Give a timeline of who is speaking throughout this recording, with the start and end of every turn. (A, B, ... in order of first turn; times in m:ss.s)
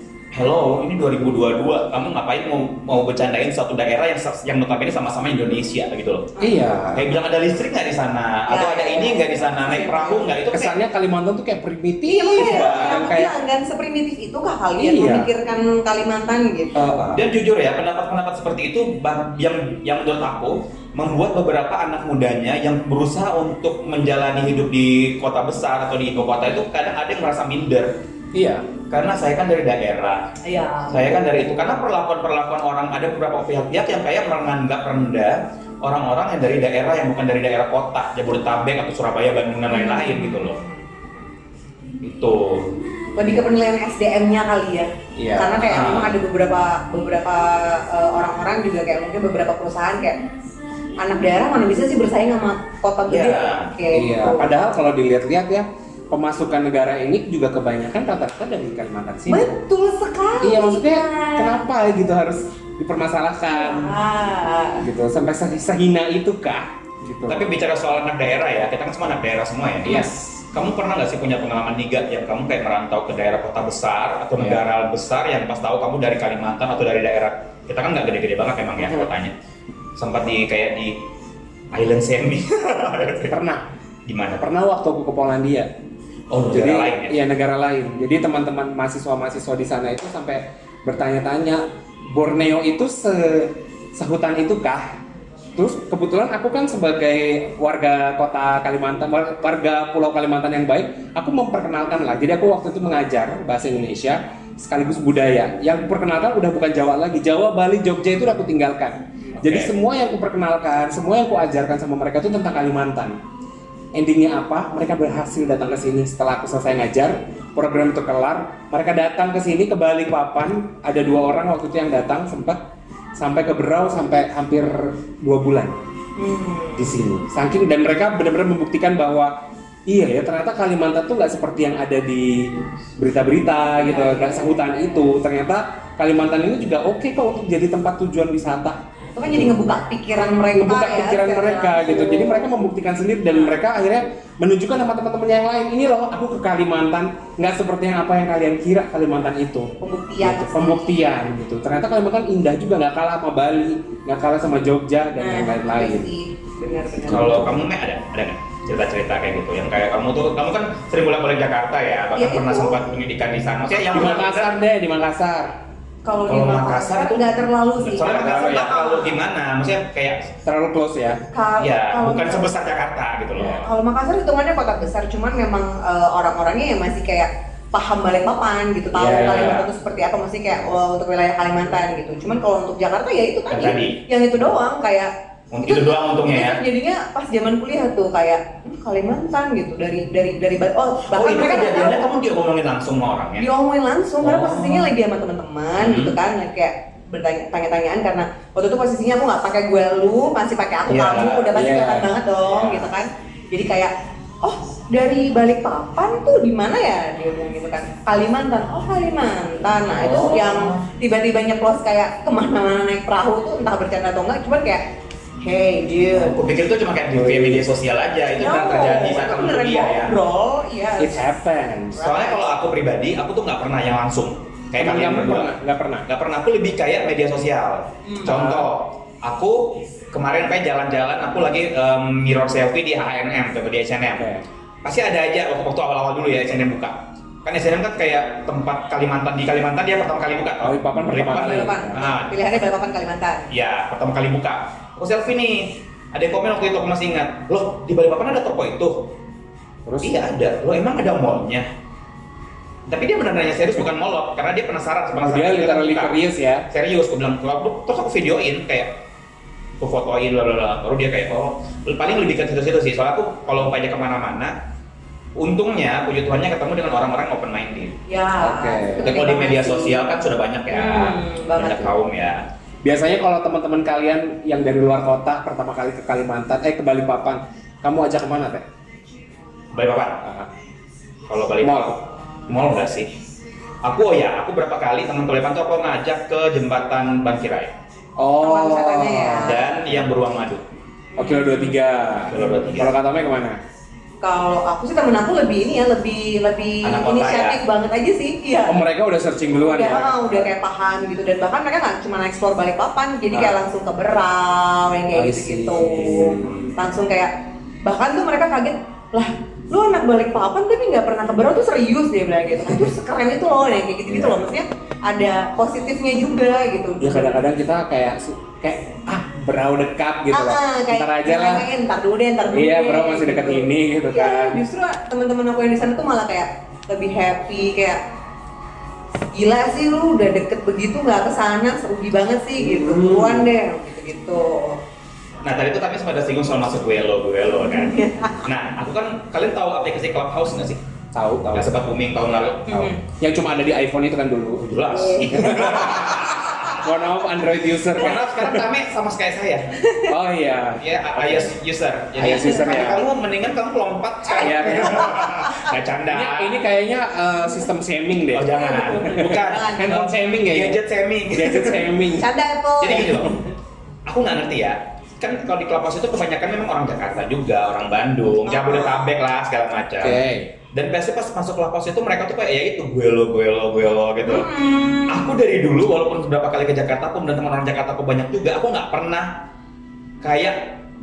0:00.3-0:06.3 A
0:06.4-0:07.1 B
0:06.9-0:10.8 A
0:08.5-0:10.4 C
0:10.5-0:13.3 B
0:12.1-0:16.8 C
0:12.4-0:13.0 A
0:14.8-0:15.3 B
0:16.8-0:17.2 B
0:17.1-0:28.0 A
0:28.3-0:28.7 B
0:28.9-0:30.4 A
0:30.4-0:31.2 C
0:30.9-0:40.6 A
0:39.7-0:40.7 C
0:42.0-0:42.7 A
0:43.2-0:50.2 C
0:45.2-0:46.1 B
0:45.7-0:46.2 A
0:51.0-0:54.5 C
0:53.1-0:53.7 A
0:53.9-0:59.5 B
0:59.3-1:01.6 C
1:00.4-1:04.0 B
1:03.5-1:04.9 C
1:04.8-1:07.6 B
1:07.3-1:19.3 A
1:09.8-1:10.4 B
1:20.0-1:21.0 A
1:21.7-1:23.4 A
1:23.3-1:23.7 B
1:24.1-1:24.4 A
1:24.4-1:25.7 B
1:26.3-1:27.2 A
1:26.5-1:35.0 B
1:35.6-1:53.2 B
1:49.4-1:49.7 A
1:54.0-2:02.6 B
2:03.2-2:05.8 B
2:06.2-2:07.0 C
2:06.8-2:19.6 B
2:13.8-2:14.6 C
2:19.1-2:22.5 C
2:20.5-2:36.1 B
2:23.3-2:23.6 C
2:29.8-2:30.8 C
2:35.2-2:37.5 C
2:37.1-2:44.6 A
2:37.1-2:37.5 B
2:42.2-2:42.8 C
2:43.9-2:44.2 C
2:43.9-2:45.6 B
2:46.0-2:49.2 C
2:46.3-2:50.3 A
2:48.0-2:48.8 B
2:50.5-2:51.2 B
2:51.3-2:52.5 C
2:51.6-2:53.7 A
2:53.4-2:53.7 B
2:53.5-3:05.1 C
2:58.9-2:59.7 B
3:03.5-3:04.0 A
3:05.5-3:06.6 A
3:05.6-3:12.1 C
3:11.1-3:13.5 A
3:13.4-3:34.8 C
3:14.3-3:14.5 B
3:14.3-3:14.9 A
3:15.8-3:16.2 A
3:20.9-3:21.5 A
3:21.5-3:22.1 B
3:22.4-3:22.9 A
3:30.0-3:30.9 A
3:35.4-3:36.4 C
3:36.1-3:40.2 A
3:37.1-3:37.7 B
3:38.3-3:41.2 C
3:41.0-3:42.0 B
3:41.9-3:42.5 C
3:42.0-3:45.5 A
3:44.8-3:46.1 B
3:46.1-3:54.3 A
3:48.0-3:48.3 C
3:48.2-3:48.7 B
3:54.2-3:54.5 B
3:54.8-4:02.4 A
4:00.6-4:02.0 B
4:01.2-4:03.5 C
4:03.5-4:09.1 A
4:09.9-4:10.2 B
4:10.0-4:11.7 A
4:12.9-4:16.2 A
4:15.2-4:16.7 B
4:16.7-4:19.0 A
4:19.8-4:24.6 A
4:25.4-4:28.0 A
4:28.1-4:30.0 C
4:28.4-4:29.2 B
4:29.0-4:32.4 A
4:30.7-4:31.9 C
4:32.8-4:38.6 B
4:39.7-4:40.2 A
4:40.2-4:40.5 B
4:41.3-4:43.1 A
4:41.6-4:42.0 B
4:43.8-4:47.7 A
4:48.2-4:49.7 B
4:48.4-4:49.6 C
4:49.4-4:50.6 A
4:51.2-4:51.8 C
4:51.2-4:53.6 B
4:52.2-4:52.9 A
4:54.2-4:58.8 C
4:56.8-4:57.6 A
4:58.7-5:00.5 B
4:59.6-5:07.3 C
5:03.3-5:03.6 B
5:05.1-5:06.7 B
5:07.8-5:17.4 C
5:14.1-5:14.5 B
5:17.0-5:21.7 B
5:20.3-5:28.0 C
5:22.5-5:24.6 B
5:29.3-5:34.8 C
5:32.6-5:33.5 B
5:35.4-5:40.8 A
5:37.7-5:38.5 C
5:41.1-5:41.8 B
5:41.5-5:42.9 A
5:42.7-5:43.0 C
5:42.7-5:48.7 B
5:44.6-5:46.9 A
5:48.0-5:49.8 A
5:49.8-5:50.1 C
5:50.1-5:51.5 B
5:50.8-5:56.6 A
5:52.2-5:53.1 B
5:52.4-5:53.0 C
5:54.3-5:55.7 C
5:54.4-5:55.4 B
5:56.1-6:02.3 B
5:58.3-6:02.0 A
5:58.5-6:00.0 C
6:02.1-6:03.4 C
6:02.8-6:03.4 A
6:04.1-6:19.5 A
6:08.5-6:09.1 C
6:10.0-6:10.5 B
6:14.2-6:15.3 C
6:20.2-6:20.8 A